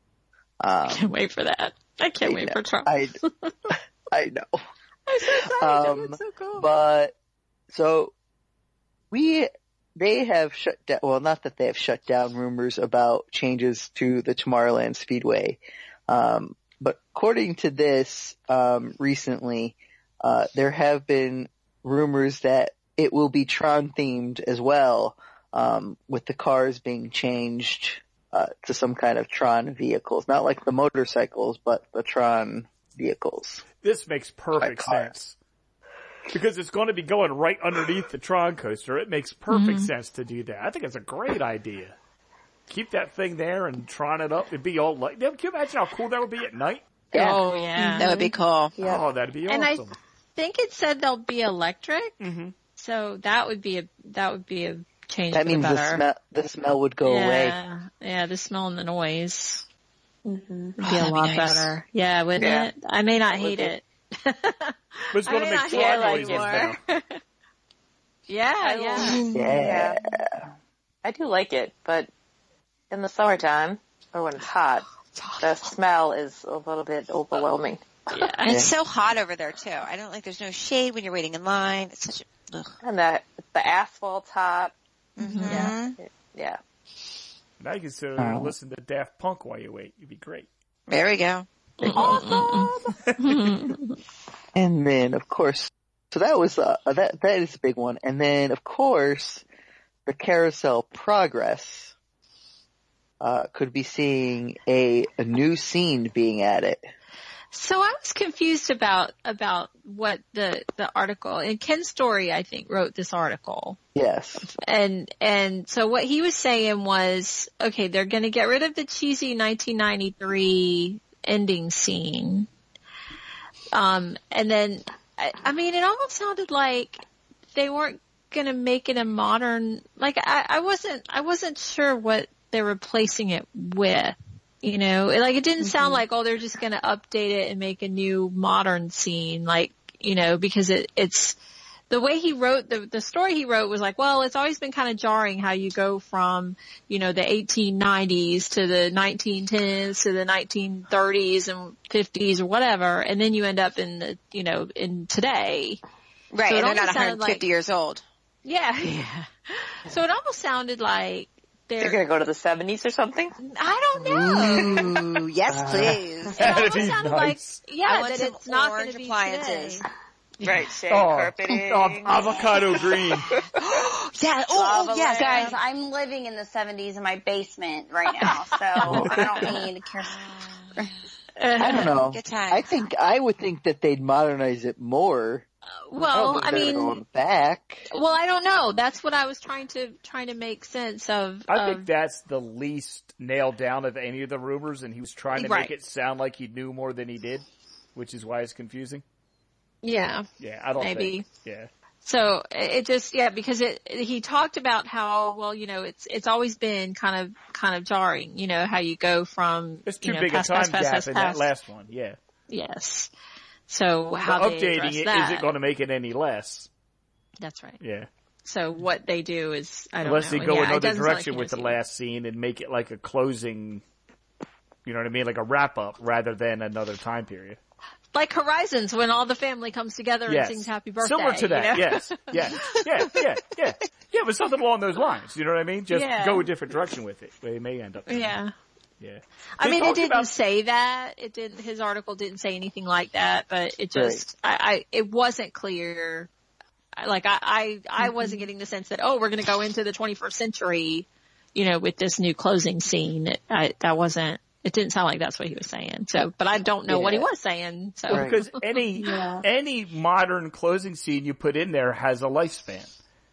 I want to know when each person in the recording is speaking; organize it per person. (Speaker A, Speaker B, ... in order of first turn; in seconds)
Speaker A: 0.6-1.1, 2.2-3.1, 4.1-4.6, 5.2-7.1, 7.7-8.1, 9.1-33.6, 34.6-35.1, 47.1-47.4, 55.3-57.6, 69.3-70.4, 88.2-88.5, 91.8-92.3, 94.5-99.4, 100.0-101.9, 103.2-106.9, 113.9-114.4, 164.0-166.0, 181.6-185.4, 186.1-187.9, 243.9-244.2, 256.9-257.3, 258.1-258.4
Speaker B: 0.9-3.5, 5.1-6.7, 39.5-39.9, 47.1-48.1, 49.5-52.1, 52.8-56.0, 57.0-59.6, 60.8-67.2, 68.3-69.2, 75.2-75.5, 78.1-78.7, 85.2-85.7, 91.9-93.9, 107.5-113.8, 114.4-122.5, 123.7-127.0, 127.5-141.4, 141.9-155.8, 156.5-157.4, 158.4-162.0, 163.4-164.9, 166.3-169.8, 181.3-181.9, 185.9-187.0, 187.9-191.9, 195.3-195.7, 199.8-201.2, 202.0-211.5, 212.5-213.1, 213.7-215.5, 217.4-217.8, 218.4-221.8, 228.1-232.6, 235.9-236.5, 238.1-238.5, 239.6-246.3, 247.0-258.6
Speaker C: 33.8-35.4, 36.3-42.0, 42.7-46.8, 48.8-50.0, 52.2-52.5, 65.1-66.8, 87.6-90.5, 93.0-93.6, 165.8-167.6, 170.4-173.3, 178.9-179.2, 191.5-199.0, 200.4-201.7, 209.8-212.2, 214.2-216.7, 217.8-218.1, 220.0-223.8, 224.8-227.6, 230.3-238.4, 239.0-240.3, 258.1-262.9
Speaker D: 48.0-48.8, 60.8-61.7, 69.0-69.5, 78.4-82.7, 85.2-86.0, 90.9-91.5, 156.3-158.0, 164.2-166.7, 167.8-169.8, 173.4-175.6, 180.1-180.7, 181.8-182.7
Speaker E: 62.4-62.7, 63.3-63.7, 65.7-66.7, 68.6-70.0, 71.0-72.1, 72.9-74.9, 75.4-78.2, 82.8-84.7, 85.5-86.6, 161.8-163.3, 170.4-172.8, 173.3-173.8, 174.5-175.5
Speaker F: 172.1-172.6, 175.1-180.9